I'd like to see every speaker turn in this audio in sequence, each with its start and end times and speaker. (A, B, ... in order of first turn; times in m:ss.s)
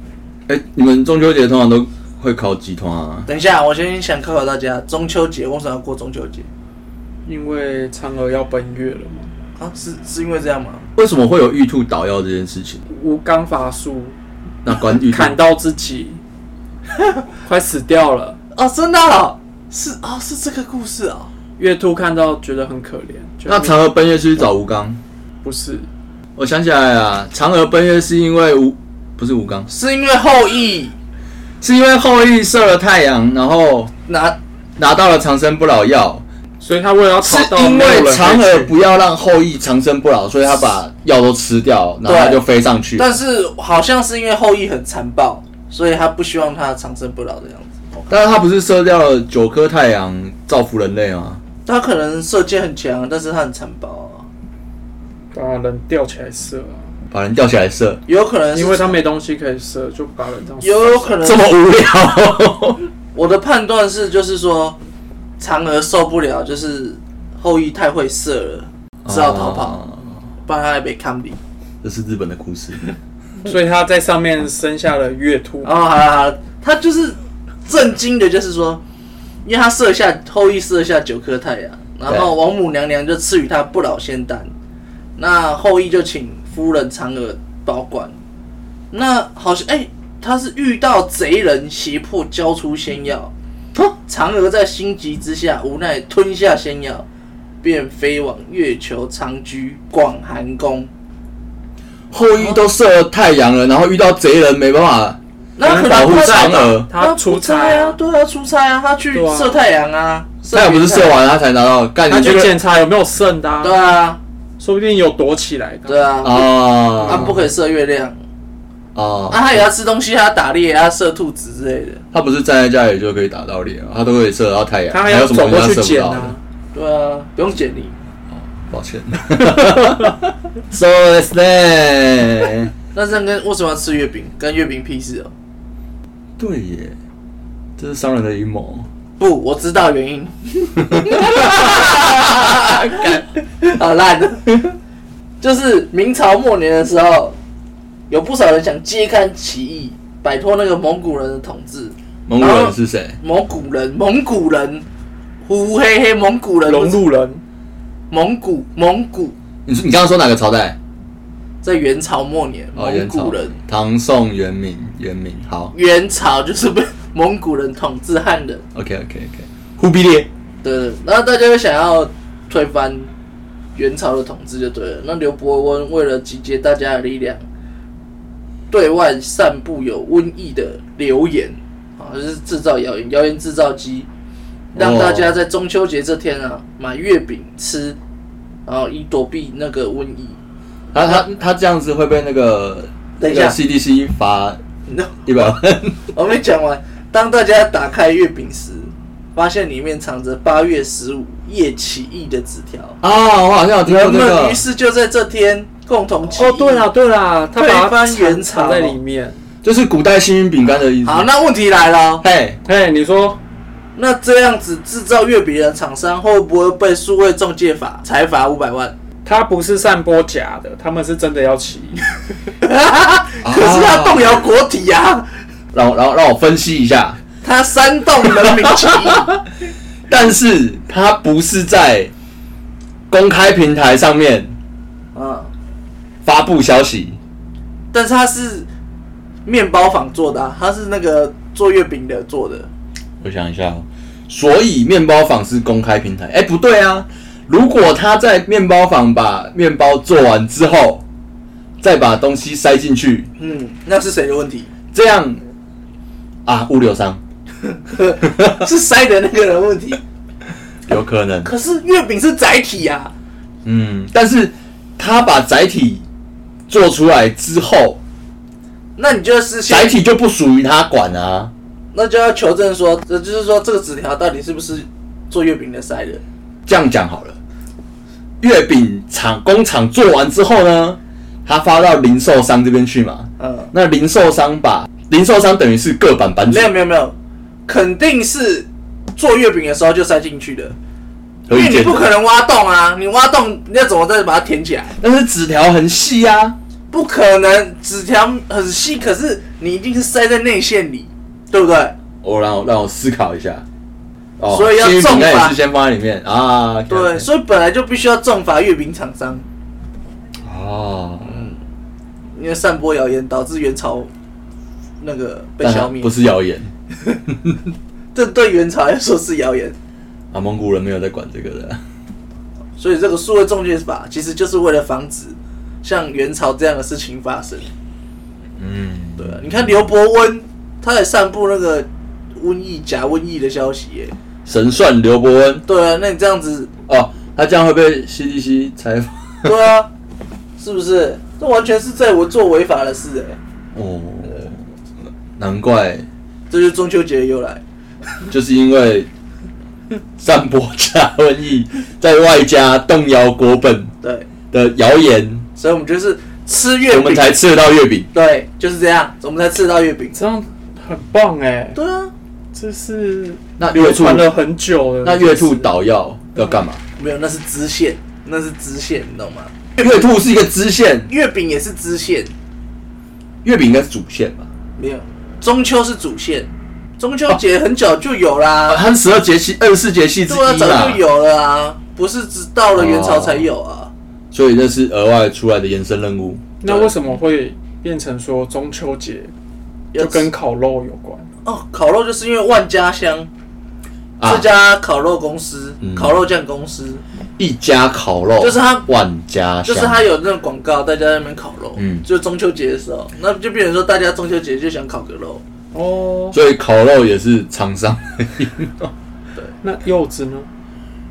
0:00.5-0:03.3 A
0:03.3-0:06.5 B
0:07.3-0:09.3 C
0:09.6-0:10.9 B
0:11.0-0:12.8 A
0:12.9-0:14.2 C
0:14.6-0:15.4 A
0:14.7-0:16.2 C
0:17.4-0:18.4 C
0:18.6-0:21.3 B
0:21.6-0:23.8 C
0:23.5-0:25.0 A
0:25.4-0:25.9 C
0:26.4-0:29.7 A
0:29.7-0:31.0 B
0:31.6-0:33.9 A
0:34.1-0:34.4 B
0:34.8-0:36.2 A
0:36.6-0:38.8 C
0:37.2-0:43.2 A
0:42.0-0:42.4 B
0:43.0-0:48.1 B
0:48.1-0:51.4 A
0:51.7-0:54.3 B
0:55.3-0:56.9 C
0:57.1-0:58.0 A
0:58.1-0:59.0 B
0:58.5-1:01.1 C
1:00.6-1:01.5 B
1:01.2-1:02.8 A
1:03.1-1:04.8 B
1:05.4-1:09.8 B
1:09.0-1:10.1 A
1:10.4-1:11.4 B
1:11.8-1:12.8 A
1:13.4-1:15.7 C
1:15.6-1:18.8 B
1:19.4-1:24.5 B
1:25.2-1:28.2 B
1:28.9-1:37.1 B
1:37.6-1:40.9 B
1:42.1-1:46.9 A
1:45.6-1:51.2 B
1:45.6-1:48.0 C
1:49.1-1:49.6 C
1:50.5-1:52.6 A
1:52.1-1:53.9 C
1:53.6-1:54.2 B
1:54.6-1:56.3 C
1:55.9-1:58.2 B
1:56.2-1:57.4 A
1:59.0-1:59.7 A
1:59.3-2:02.0 B
2:02.1-2:06.4 A
2:04.9-2:06.4 C
2:06.7-2:08.0 B
2:08.3-2:12.7 A
2:12.9-2:15.3 B
2:16.4-2:17.0 A
2:17.8-2:18.9 A
2:19.2-2:24.8 B
2:20.9-2:23.2 A
2:25.4-2:27.4 B
2:28.1-2:34.9 B
2:32.3-2:33.2 A
2:35.5-2:37.0 B
2:36.7-2:37.4 C
2:38.1-2:39.4 B
2:39.7-2:40.8 A
2:41.6-2:43.6 B
2:42.8-2:45.7 A
2:45.7-2:48.6 B
2:48.7-2:50.3 A
2:50.6-2:53.1 B
2:53.8-2:57.4 B
2:58.7-3:04.1 B
3:04.8-3:05.4 A
3:04.8-3:08.0 B
3:08.7-3:10.4 B
3:10.9-3:14.6 A
3:11.0-3:11.2 B
3:13.2-3:13.6 B
3:14.9-3:15.5 B
3:15.2-3:16.0 A
3:16.1-3:23.0 B
3:23.0-3:24.6 A
3:23.8-3:26.9 B
3:26.3-3:29.4 C
3:27.6-3:29.0 B
3:29.6-3:31.3 A
3:30.8-3:32.2 B
3:32.2-3:32.6 A
3:32.6-3:33.4 C
3:34.0-3:39.0 B
3:39.2-3:42.1 C
3:42.6-3:45.3 B
3:43.4-3:44.4 A
3:45.7-3:47.2 A
3:47.4-3:49.3 B
3:48.3-3:49.4 A
3:50.1-3:52.1 A
3:53.1-3:54.6 A
3:55.2-3:55.5 B
3:56.2-3:57.2 A
3:57.9-3:58.7 B
3:59.5-4:02.7 B
4:03.2-4:11.0 A
4:11.8-4:13.3 A
4:13.4-4:14.7 B
4:14.9-4:15.4 A
4:16.5-4:17.2 A
4:17.7-4:20.0 B
4:18.2-4:18.7 A
4:20.9-4:21.5 A
4:21.4-4:23.1 B
4:23.6-4:26.0 A
4:26.7-4:28.0 A
4:29.0-4:30.0 B
4:29.7-4:31.5 A
4:31.9-4:36.2 B
4:36.7-4:37.4 A
4:38.4-4:46.7 A
4:43.4-4:43.7 B
4:46.5-4:47.2 B
4:47.7-4:50.8 B
4:51.5-4:52.1 A
4:51.5-4:55.0 B
4:55.0-4:56.6 A
4:56.9-5:02.0 B
5:02.2-5:03.6 A
5:04.4-5:07.3 A
5:04.5-5:05.6 B
5:06.9-5:09.4 B
5:10.4-5:11.5 A
5:11.2-5:11.6 B
5:12.4-5:14.1 B
5:15.0-5:16.1 B
5:15.6-5:16.7 A
5:18.2-5:19.8 B
5:20.3-5:21.8 A
5:22.8-5:27.7 B
5:28.6-5:29.8 A
5:29.2-5:34.2 B
5:34.5-5:35.6 A
5:35.7-5:36.7 B
5:36.9-5:39.6 A
5:39.4-5:39.9 B
5:40.6-5:43.4 B
5:43.8-5:44.6 A
5:45.4-5:46.1 A
5:46.5-5:47.6 B
5:48.3-5:49.1 A
5:50.2-5:53.9 A
5:54.0-5:54.3 B
5:54.5-5:55.5 A
5:55.6-5:57.4 B
5:56.9-5:58.1 A
5:58.1-6:00.2 B
6:00.2-6:01.8 C
6:01.7-6:02.1 B
6:02.5-6:05.7 C
6:03.6-6:04.3 A
6:05.0-6:06.8 A
6:07.0-6:09.6 B
6:09.8-6:11.1 A
6:11.1-6:12.3 B
6:13.4-6:14.5 A
6:14.8-6:18.8 B
6:18.7-6:21.0 A
6:20.3-6:23.9 B
6:22.7-6:23.5 A
6:24.3-6:26.6 A
6:26.6-6:29.3 C
6:26.7-6:26.9 B
6:29.9-6:30.3 B
6:30.0-6:31.3 C
6:31.4-6:33.3 B
6:34.2-6:34.5 A
6:34.2-6:37.0 B
6:35.8-6:36.2 A
6:37.4-6:40.0 A
6:38.4-6:38.8 B
6:39.6-6:45.4 B
6:41.8-6:42.0 A
6:45.7-6:46.4 C
6:46.3-6:48.9 A
6:49.6-6:50.5 C